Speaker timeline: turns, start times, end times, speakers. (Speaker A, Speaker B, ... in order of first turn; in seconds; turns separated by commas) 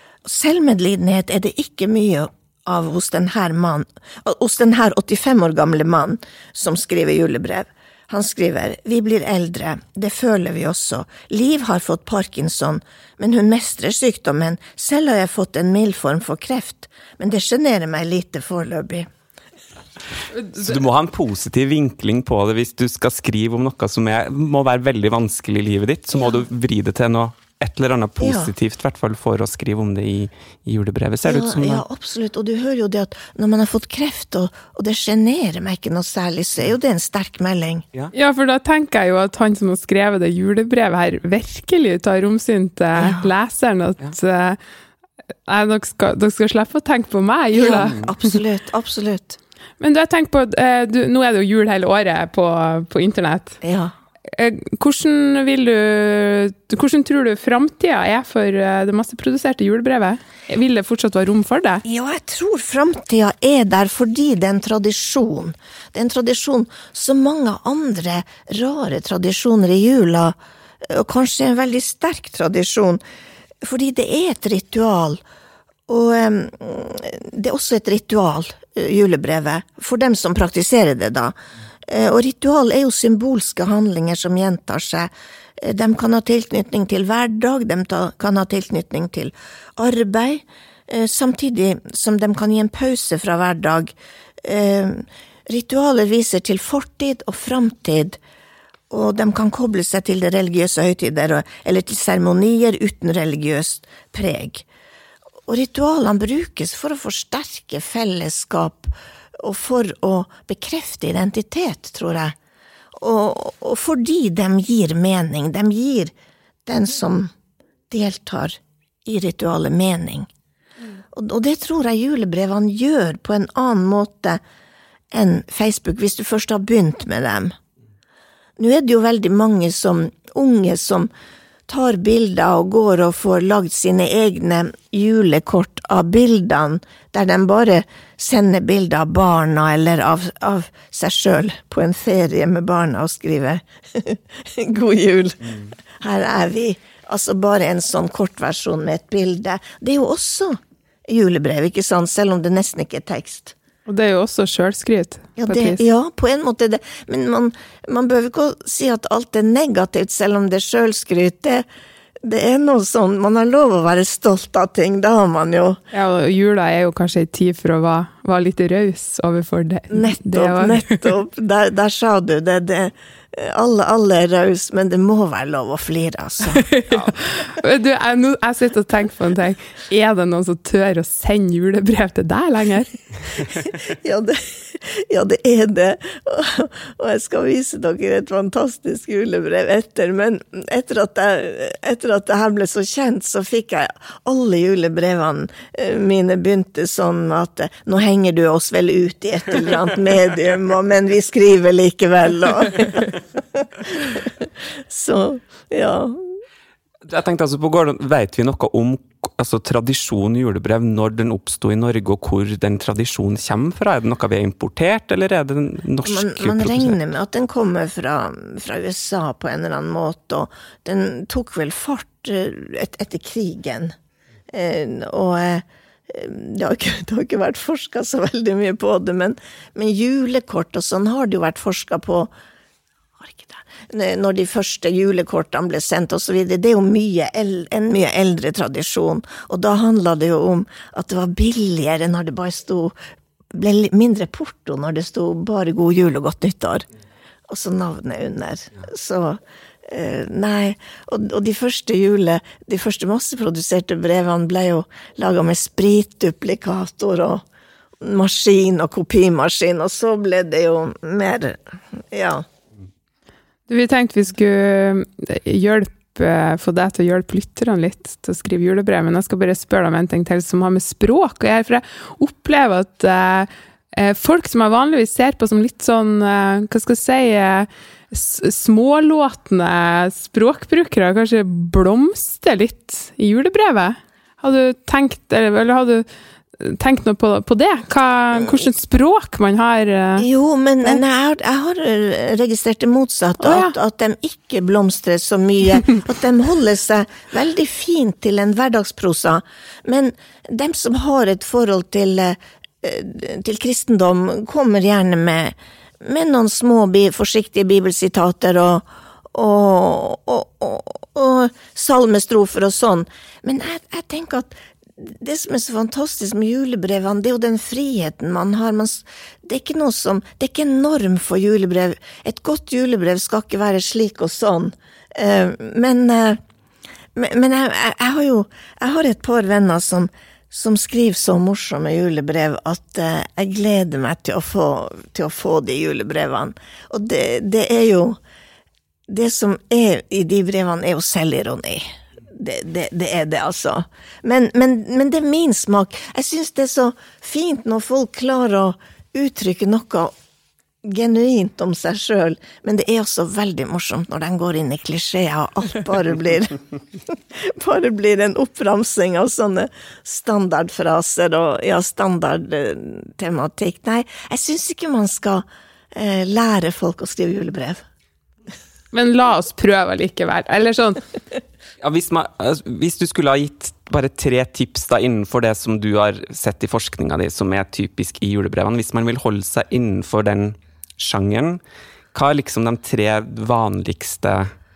Speaker A: 0.2-19.1, Speaker B: 20.5-31.8, Speaker A: 28.2-28.5, Speaker A: 31.2-37.8, Speaker C: 38.1-44.6, Speaker A: 42.9-43.3, Speaker C: 45.5-47.9, Speaker A: 47.5-49.4, Speaker B: 47.8-48.1, Speaker C: 49.8-53.6, Speaker A: 53.6-53.9, Speaker C: 54.3-61.8, Speaker A: 61.8-73.0, Speaker A: 73.6-75.2, Speaker A: 75.9-81.3, Speaker A: 81.9-98.2, Speaker A: 98.9-104.6, Speaker A: 105.5-112.3, Speaker A: 112.9-116.1, Speaker A: 116.7-117.3, Speaker A: 117.9-120.3, Speaker A: 121.1-124.4, Speaker A: 125.1-127.5, Speaker A: 128.6-131.1, Speaker A: 131.7-153.5, Speaker C: 153.8-155.8, Speaker A: 155.4-161.6, Speaker A: 162.2-165.8, Speaker C: 165.9-171.1, Speaker A: 169.9-176.7, Speaker C: 176.5-182.9, Speaker A: 183.6-206.3, Speaker B: 207.0-217.0, Speaker A: 216.0-223.9, Speaker A: 224.5-232.3, Speaker A: 233.2-242.9, Speaker A: 243.5-246.8, Speaker A: 247.5-257.4, Speaker A: 258.0-262.4, Speaker C: 263.7-286.1, Speaker C: 286.6-290.3, Speaker A: 290.2-326.4, Speaker C: 293.4-293.7, Speaker A: 327.1-338.2, Speaker A: 339.1-350.1, Speaker A: 350.8-367.8, Speaker C: 368.9-371.0, Speaker B: 371.8-381.6, Speaker B: 382.1-384.5